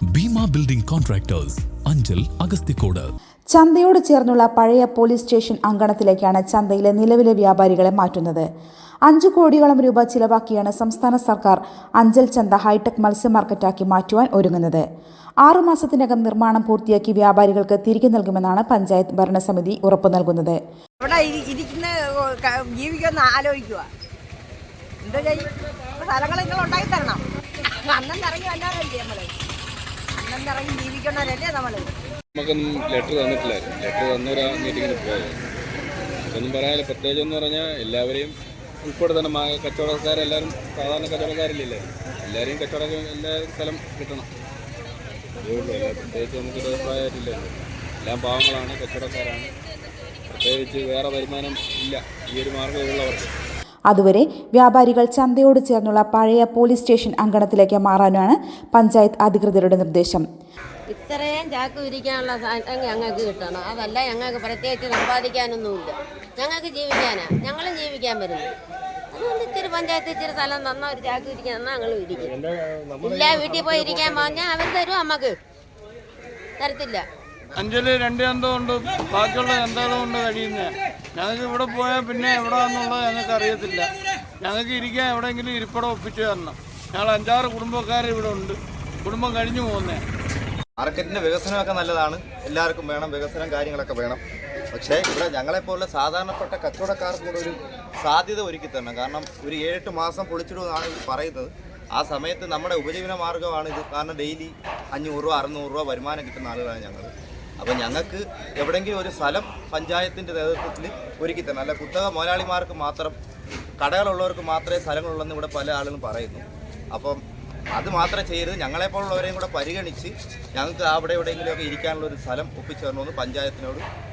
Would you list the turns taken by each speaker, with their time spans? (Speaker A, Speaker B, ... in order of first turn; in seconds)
Speaker A: 0.1-3.1
Speaker B: 3.5-8.5, 9.1-14.8, 15.4-20.6, 53.9-60.2
Speaker C: 22.8-23.8, 28.9-29.2, 30.9-31.8
Speaker D: 32.3-35.4, 36.3-44.2, 45.4-49.5, 50.3-53.3
Speaker E: 60.9-68.5, 69.1-72.4, 73.0-75.3, 76.6-77.0
Speaker F: 77.6-83.9, 84.4-90.0
Speaker G: 90.8-94.2, 94.7-113.2, 113.8-117.2, 117.7-123.8